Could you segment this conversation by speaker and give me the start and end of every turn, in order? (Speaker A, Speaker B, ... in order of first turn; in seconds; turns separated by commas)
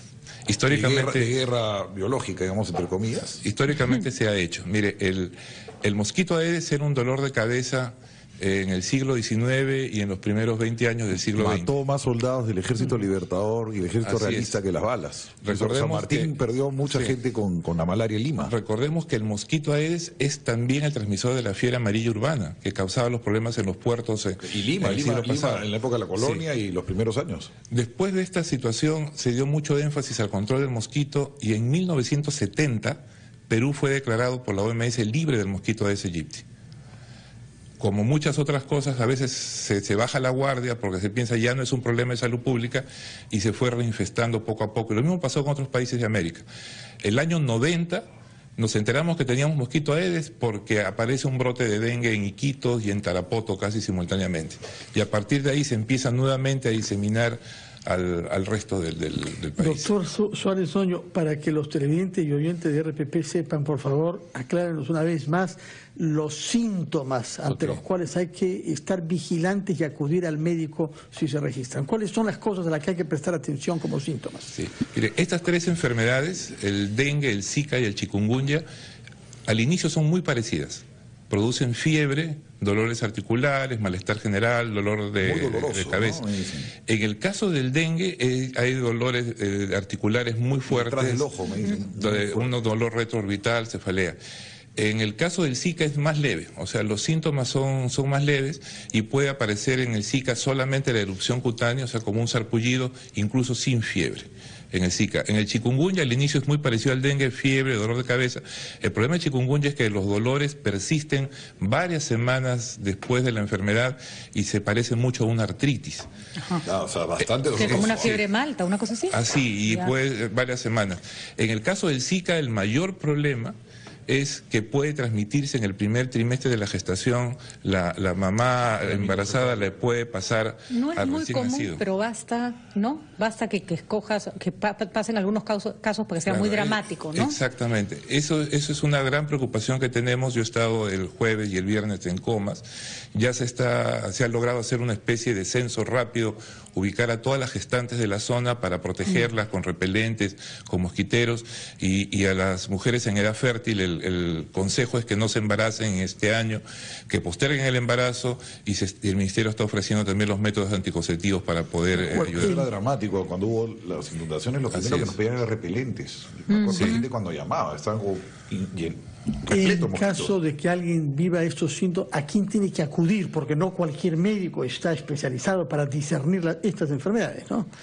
Speaker A: 0.5-1.3, Speaker B: 0.7-3.4, Speaker A: 3.4-11.7, Speaker B: 11.4-18.5, Speaker A: 14.0-14.6, Speaker A: 15.4-16.3, Speaker A: 16.9-17.1, Speaker A: 18.4-26.4, Speaker B: 24.4-27.5, Speaker A: 27.7-36.4, Speaker A: 37.8-46.4, Speaker A: 47.0-48.0, Speaker A: 48.6-59.9, Speaker C: 59.6-74.5, Speaker A: 74.5-78.7, Speaker A: 79.5-86.2, Speaker B: 85.2-86.7, Speaker A: 86.8-91.3, Speaker B: 90.7-92.5, Speaker A: 91.8-94.2, Speaker A: 94.8-116.1, Speaker B: 116.7-118.2, Speaker D: 117.5-119.9, Speaker A: 117.6-118.2, Speaker A: 119.1-123.5, Speaker A: 124.1-131.8, Speaker B: 128.8-129.7, Speaker D: 130.7-137.3, Speaker A: 136.3-162.6, Speaker C: 162.1-162.7, Speaker B: 162.2-170.3, Speaker A: 164.7-165.2, Speaker D: 166.5-167.1, Speaker C: 169.5-177.7